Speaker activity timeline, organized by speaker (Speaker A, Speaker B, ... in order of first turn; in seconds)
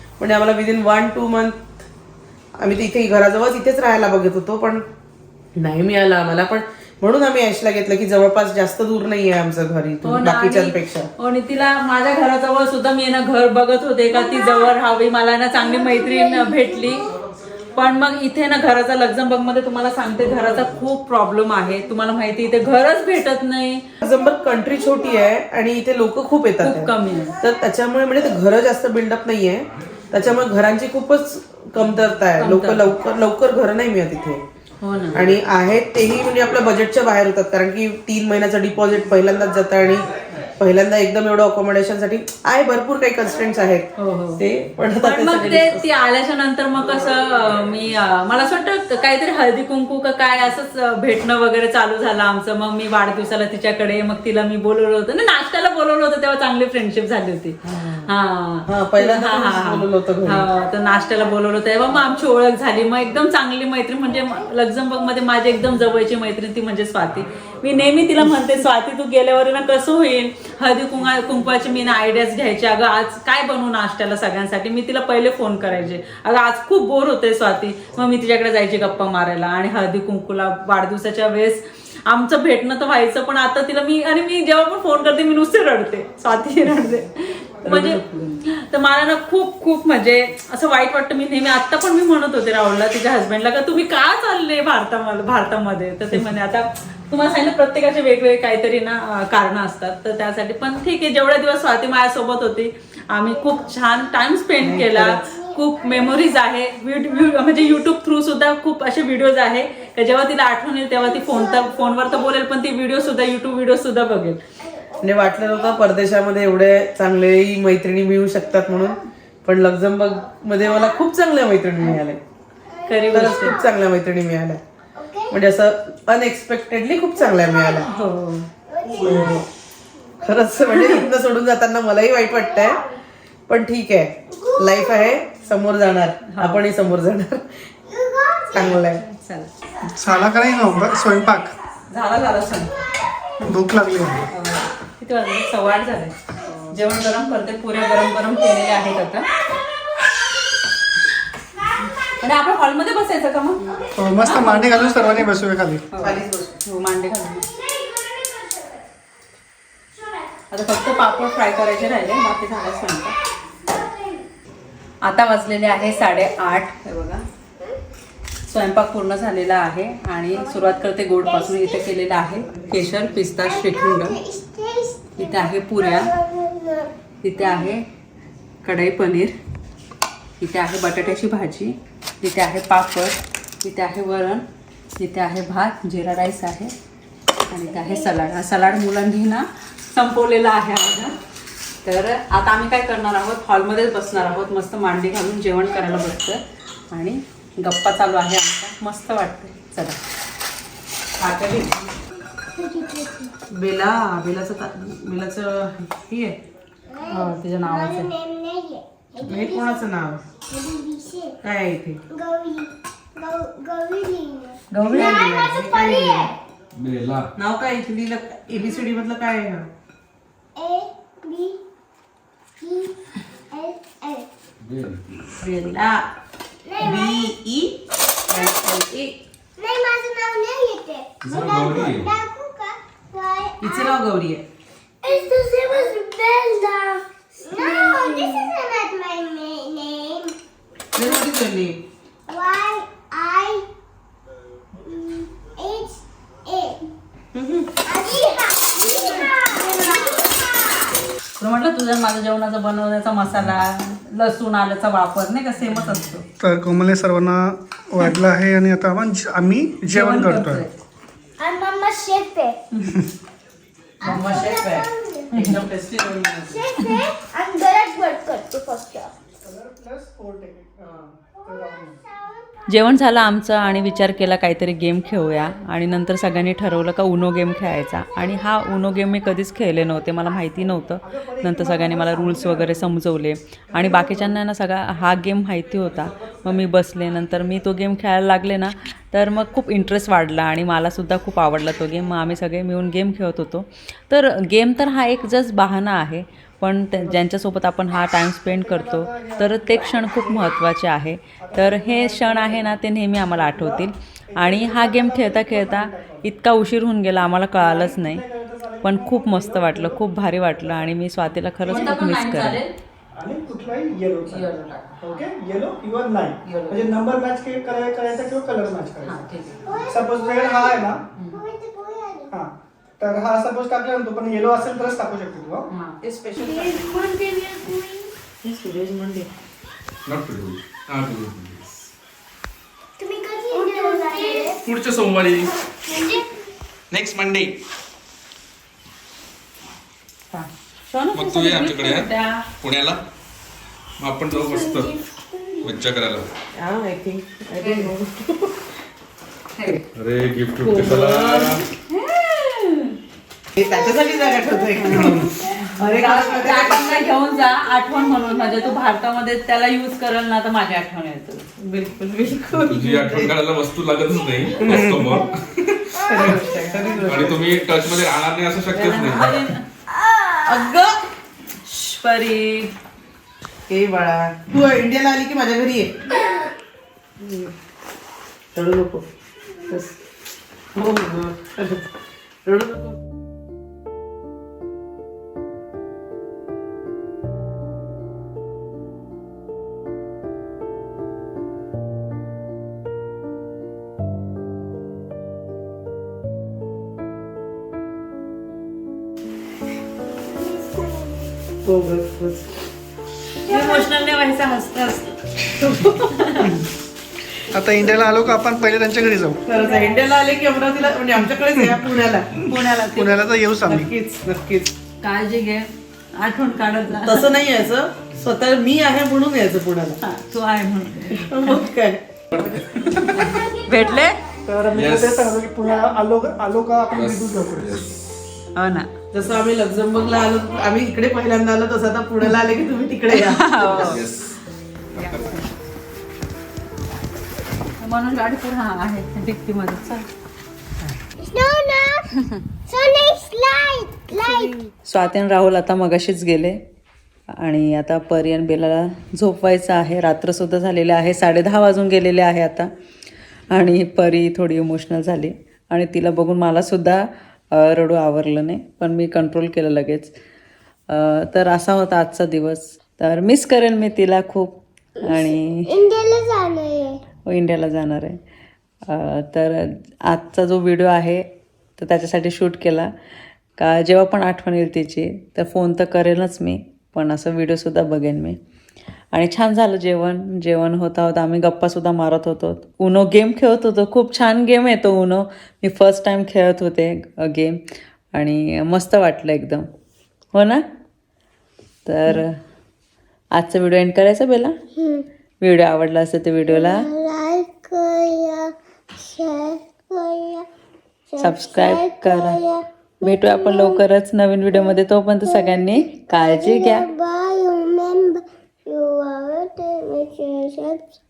Speaker A: 0.2-1.8, 2.6-4.8, 5.5-11.1, 24.0-34.4, 35.1-45.8, 57.7-58.1, 58.7-60.5, 87.6-88.3, 104.6-105.2, 115.0-122.2, 123.1-124.6, 125.3-127.9, 129.0-129.4, 130.2-132.8, 133.5-137.6, 138.5-139.0, 156.0-156.6, 203.5-206.4, 209.2-210.2, 211.4-212.0, 214.8-216.3, 217.4-219.7, 225.4-226.1, 226.8-227.8, 228.3-229.2, 233.6-234.4, 237.6-238.0, 240.9-241.8, 247.3-247.7, 265.4-266.6, 326.0-326.8, 328.4-329.3, 346.5-348.6, 350.6-351.6, 353.5-357.1, 361.6-363.3, 364.6-365.1, 366.0-367.4, 370.5-371.0, 373.7-376.2, 377.2-377.5, 378.5-379.0, 380.7-381.9, 382.4-382.9, 401.6-402.5, 409.5-412.3, 413.6-414.7, 417.0-420.0, 421.1-422.0, 429.1-434.0
Speaker B: 10.0-17.1, 17.7-23.8, 26.6-27.4, 32.4-32.9, 34.8-35.2, 44.0-44.4, 44.9-114.4, 122.9-123.6, 127.8-128.5, 130.8-131.0, 136.3-136.7, 139.0-139.5, 141.9-142.8, 144.3-146.2, 146.7-149.3, 152.0-157.5, 160.5-163.1, 165.0-167.2, 168.5-174.2, 175.2-176.1, 177.2-177.8, 178.6-179.3, 180.4-184.4, 185.0-186.7, 187.5-191.2, 191.8-200.0, 201.2-201.9, 207.1-208.1, 214.7-215.2, 248.9-249.2, 251.4-256.2, 259.9-260.8, 264.0-265.6, 272.7-308.2, 308.8-312.7, 314.2-315.3, 316.4-316.9, 319.0-319.7, 321.1-321.4, 325.7-326.9, 340.3-342.4, 347.6-347.9, 349.6-349.8, 351.9-352.9, 354.8-361.5, 366.1-367.1, 368.7-369.6, 371.6-372.7, 403.4-406.6, 412.4-413.3, 415.0-417.3, 420.0-421.7, 423.1-424.2, 428.5-428.9, 433.1-434.0, 435.0-435.4, 437.8-440.1, 444.2-446.6, 447.4-452.7, 453.5-460.1, 460.9-465.7, 467.2-468.2, 468.9-471.2, 471.8-472.9, 473.6-478.4, 479.1-487.6, 488.1-489.7, 490.3-490.6, 491.8-492.4, 493.3-494.5, 495.4-496.9, 501.2-502.4, 503.0-506.9
Speaker C: 14.1-14.7, 15.6-17.0, 24.3-25.3, 103.4-104.1, 105.2-106.5, 107.1-107.9, 111.0-112.3, 114.6-115.9, 118.4-119.0, 120.6-121.1, 122.7-123.7, 124.9-125.4, 127.2-127.9, 128.7-129.4, 130.2-131.1, 132.1-132.9, 134.3-135.3, 137.9-138.8, 157.4-158.9, 159.9-160.3, 160.9-161.6, 163.5-164.3, 170.3-171.9, 173.4-177.7, 187.6-188.3, 202.5-203.3, 206.9-209.9, 210.5-211.4, 212.1-216.3, 218.6-218.9, 220.6-221.6, 222.6-224.3, 226.6-227.3, 229.6-234.0, 235.0-240.3, 242.3-243.7, 244.8-246.8, 247.8-250.9, 261.4-262.6, 264.0-265.5, 266.4-269.1, 271.4-272.5, 319.6-322.3, 326.4-328.1, 333.0-334.6, 335.9-336.4, 344.4-345.7, 353.6-356.6, 357.3-358.7, 400.3-401.4, 423.1-424.5, 430.0-430.8, 441.2-442.1, 442.7-444.6, 465.0-467.0, 494.8-495.1, 496.4-500.5, 501.1-503.8, 505.2-510.9
Speaker D: 29.8-30.6, 216.8-217.3, 224.6-225.0, 231.2-232.1, 330.1-331.9, 334.6-335.5, 336.9-337.5, 341.1-342.1, 342.6-343.0, 344.0-345.0, 345.6-346.3, 349.9-351.6, 362.6-365.8, 367.0-369.4, 422.3-423.3, 424.7-425.3, 426.9-427.9, 433.7-434.4, 434.9-435.4
Speaker E: 139.8-141.5, 143.4-144.3, 154.0-155.8, 172.5-173.2, 256.4-260.6, 269.4-272.1, 281.0-282.9, 283.7-284.4, 298.5-300.6, 301.4-306.3, 307.5-310.9, 311.6-312.6, 313.1-319.2, 319.8-321.0, 322.3-325.7, 364.7-365.1, 407.5-409.4, 412.9-413.9, 424.4-427.8